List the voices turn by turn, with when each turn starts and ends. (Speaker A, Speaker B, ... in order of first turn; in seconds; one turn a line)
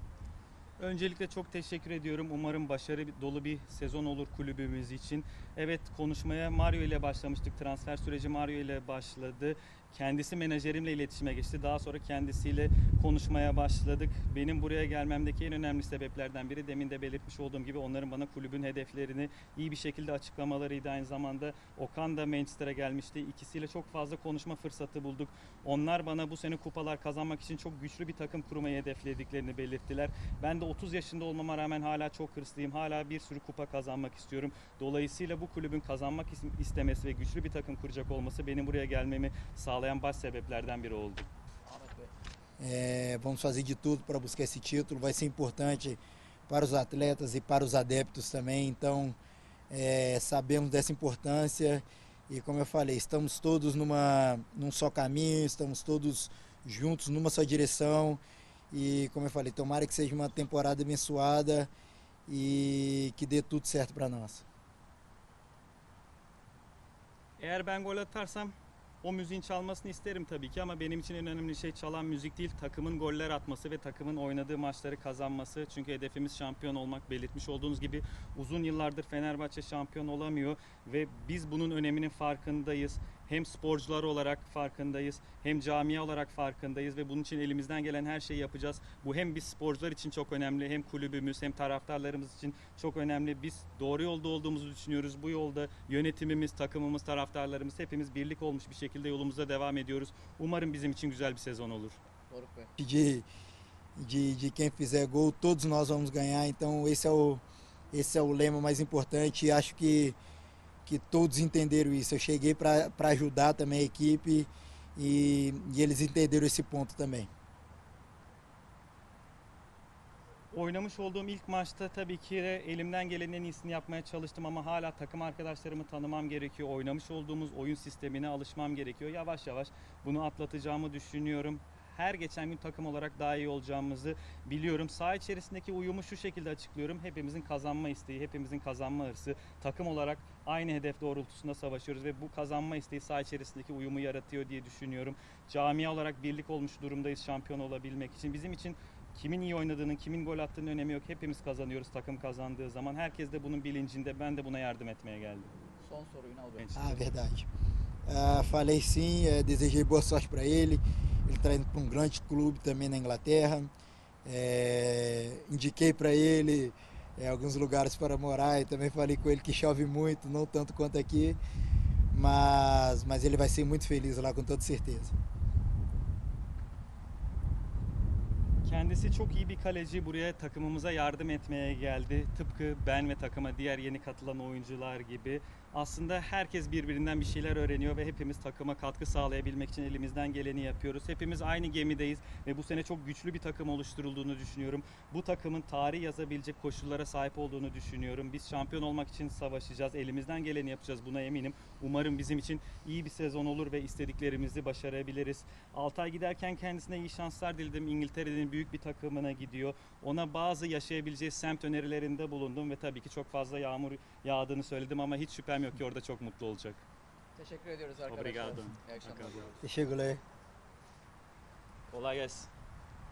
Speaker A: 0.8-41.3
Speaker B: 41.7-42.1
Speaker C: 42.6-49.1
Speaker C: 49.7-58.2
Speaker C: 58.7-61.7
Speaker C: 62.3-64.5
Speaker A: 67.4-102.0
Speaker B: 102.3-102.7
Speaker C: 102.8-103.2
Speaker C: 104.0-110.2
Speaker C: 110.9-117.3
Speaker A: 120.5-155.5
Speaker B: 155.8-156.7
Speaker A: 156.6-157.0
Speaker C: 156.8-157.5
Speaker C: 158.1-163.7
Speaker C: 164.2-171.4
Speaker C: 172.1-175.2
Speaker A: 178.6-216.8
Speaker B: 217.4-219.6
Speaker A: 218.1-219.6
Speaker C: 219.6-220.2
Speaker A: 221.9-222.5